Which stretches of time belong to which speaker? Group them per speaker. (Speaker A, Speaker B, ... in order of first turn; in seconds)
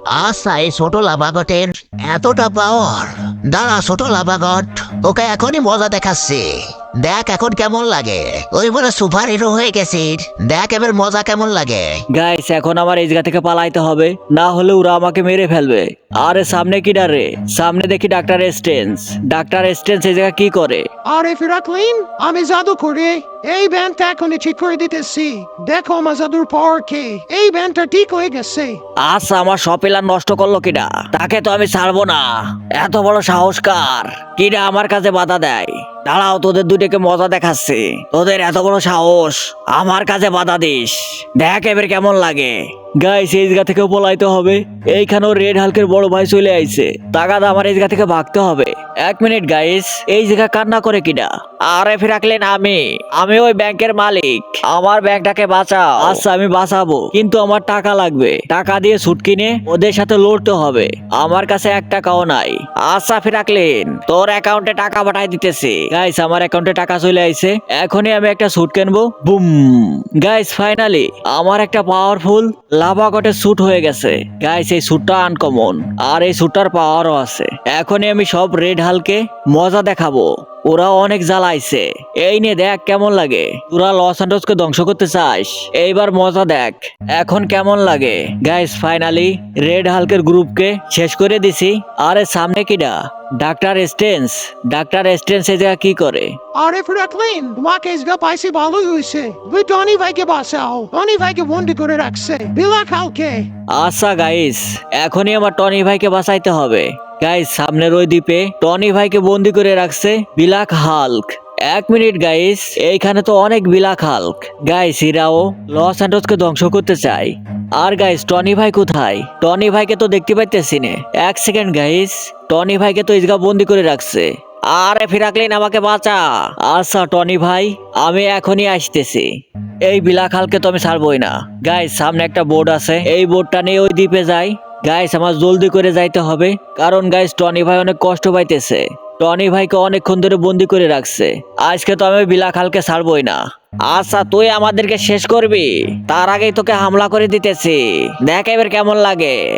Speaker A: 0.1-12.0
Speaker B: 12.1-20.9, 29.0-96.4, 103.7-149.4
Speaker C: 21.1-28.8, 96.5-103.5